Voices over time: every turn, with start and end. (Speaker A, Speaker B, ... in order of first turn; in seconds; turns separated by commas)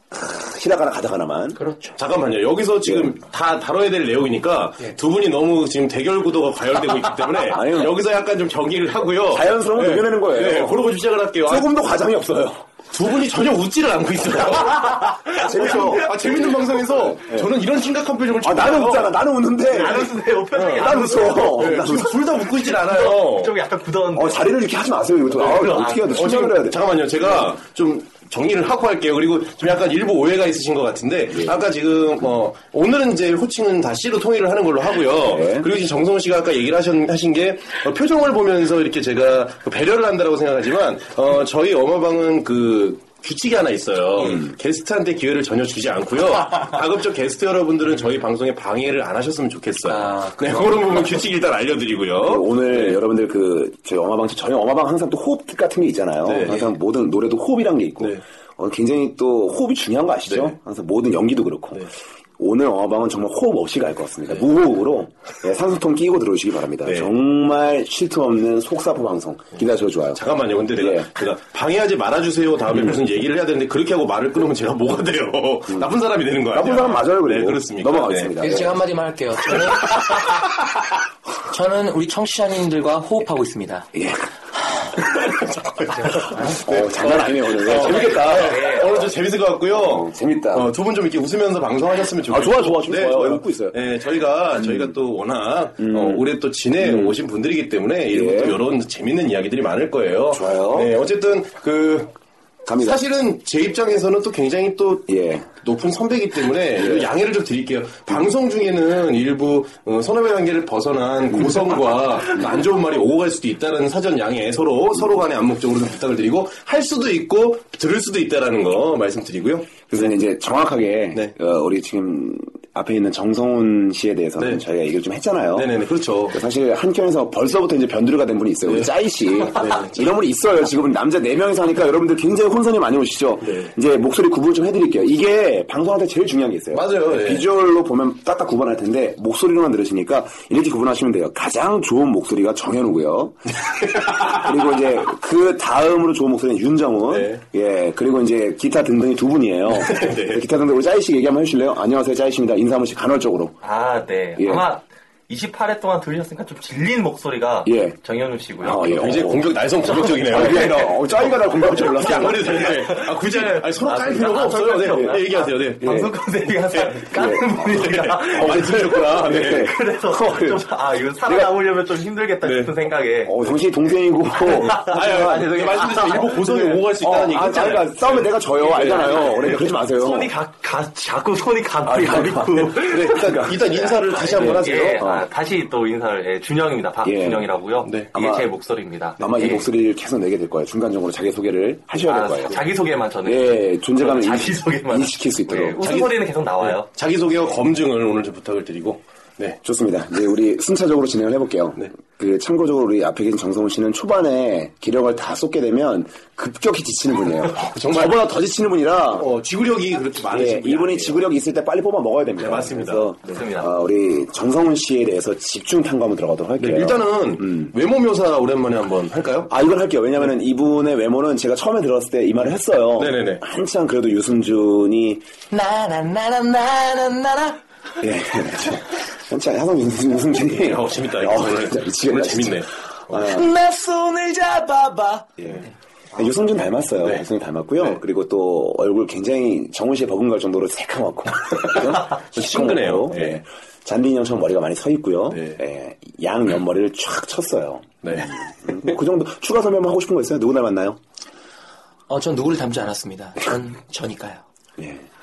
Speaker A: 0.1-1.6, Speaker B: 1.6-2.0, Speaker C: 2.0-11.7, Speaker A: 2.8-3.1, Speaker A: 7.4-8.0, Speaker A: 9.3-10.9, Speaker A: 11.4-12.7, Speaker C: 12.9-19.2, Speaker A: 15.3-16.4, Speaker A: 16.9-17.5, Speaker A: 18.4-20.2, Speaker D: 19.7-24.5, Speaker C: 19.7-23.5, Speaker A: 20.7-22.2, Speaker A: 24.1-27.5, Speaker D: 25.4-26.2, Speaker C: 25.4-53.0, Speaker A: 35.2-35.7, Speaker B: 49.9-50.9, Speaker A: 52.2-70.2, Speaker C: 56.2-56.7, Speaker C: 60.3-60.6, Speaker C: 66.9-67.1, Speaker C: 70.1-78.4, Speaker A: 70.7-71.1, Speaker A: 76.5-78.8, Speaker B: 78.4-80.1, Speaker B: 81.5-83.9, Speaker A: 83.9-84.3, Speaker A: 85.0-85.4, Speaker C: 85.1-102.1, Speaker A: 86.0-88.6, Speaker D: 87.8-89.1, Speaker A: 89.7-90.7, Speaker A: 92.3-93.8, Speaker A: 94.6-94.9, Speaker A: 95.8-96.3, Speaker A: 96.8-97.2, Speaker A: 98.1-98.6, Speaker A: 100.3-100.9, Speaker A: 102.7-103.0, Speaker C: 102.7-120.0, Speaker A: 105.1-105.5, Speaker A: 106.8-107.1, Speaker A: 119.9-125.8, Speaker C: 125.5-126.4, Speaker A: 126.3-153.6, Speaker C: 128.7-128.9, Speaker C: 129.5-130.1, Speaker C: 133.4-133.7, Speaker C: 136.7-137.5, Speaker C: 143.7-144.4, Speaker C: 147.1-147.4, Speaker C: 149.7-150.4, Speaker D: 153.6-159.1, Speaker A: 154.4-154.7, Speaker A: 157.7-158.0, Speaker A: 158.6-159.6, Speaker C: 159.0-161.0, Speaker D: 159.9-161.0, Speaker A: 160.2-162.7, Speaker C: 161.6-166.1, Speaker D: 161.8-173.4, Speaker A: 165.8-166.1, Speaker C: 166.7-167.0, Speaker A: 167.1-167.8, Speaker C: 167.7-169.7, Speaker A: 168.3-170.7, Speaker A: 171.2-171.6, Speaker C: 172.4-172.7, Speaker A: 173.2-175.4, Speaker D: 174.4-176.8, Speaker C: 174.4-179.7, Speaker A: 176.4-180.3, Speaker D: 178.9-189.7, Speaker A: 181.9-183.6, Speaker C: 181.9-185.1, Speaker A: 184.3-185.3, Speaker A: 187.0-187.5, Speaker C: 187.8-188.1, Speaker A: 188.1-188.5, Speaker A: 189.2-192.6, Speaker D: 192.0-196.9, Speaker A: 193.2-196.1, Speaker C: 195.8-199.6, Speaker A: 199.6-209.3, Speaker C: 207.6-208.2, Speaker C: 209.1-211.3, Speaker A: 210.3-217.7, Speaker C: 212.4-213.4, Speaker D: 213.3-213.8, Speaker C: 216.6-219.5, Speaker A: 219.5-225.2, Speaker C: 223.0-223.4, Speaker B: 225.5-227.6, Speaker A: 228.0-233.5, Speaker C: 230.4-233.3, Speaker B: 233.2-235.3, Speaker A: 235.4-235.6, Speaker A: 236.2-251.0, Speaker C: 241.6-243.4, Speaker C: 245.3-245.6, Speaker C: 248.0-248.3, Speaker B: 252.1-254.4, Speaker A: 254.8-255.0